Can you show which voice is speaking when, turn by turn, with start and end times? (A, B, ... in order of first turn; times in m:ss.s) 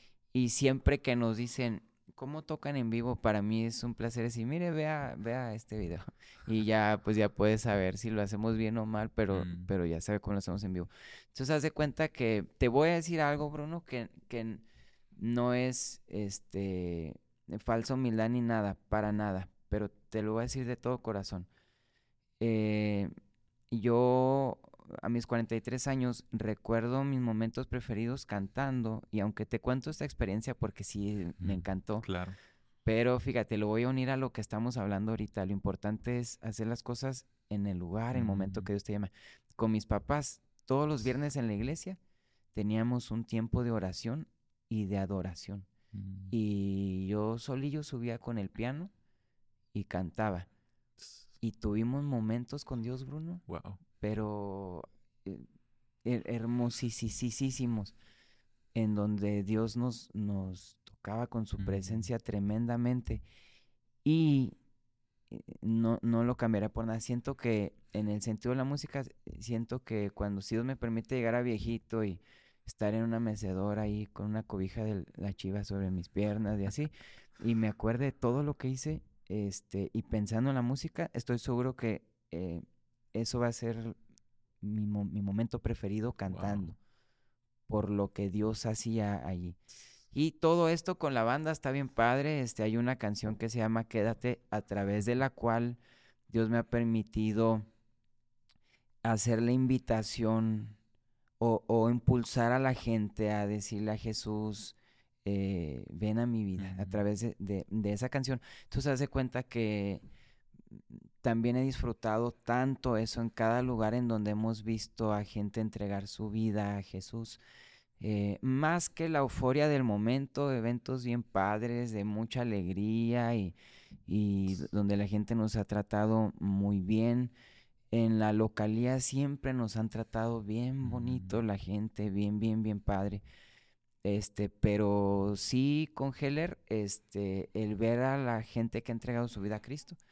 0:00.3-0:14.6 A
0:09.3-0:09.7 B
0:15.2-0:21.5 A
0:22.4-0:23.1 A
0:23.7-0:32.1 A
0:31.4-0:32.4 B
0:32.8-0:42.0 A
0:38.1-0:38.7 B
0:42.5-0:45.7 A
0:45.9-0:46.3 B
0:46.3-0:48.9 A
0:49.7-0:50.5 A
0:51.4-0:55.4 A
0:53.5-0:53.8 B
0:56.0-0:58.0 A
0:58.7-1:03.2 A
1:01.6-1:02.1 B
1:04.0-1:04.6 A
1:05.3-1:24.0 A
1:24.6-1:26.8 A
1:26.3-1:26.7 B
1:27.7-1:29.6 A
1:30.1-1:35.8 A
1:36.3-1:37.7 A
1:39.0-1:40.8 A
1:41.4-1:50.0 A
1:46.6-1:47.0 B
1:50.7-1:57.4 A
1:58.0-2:07.3 A
2:07.9-2:13.2 A
2:10.8-2:11.4 B
2:14.0-2:20.0 A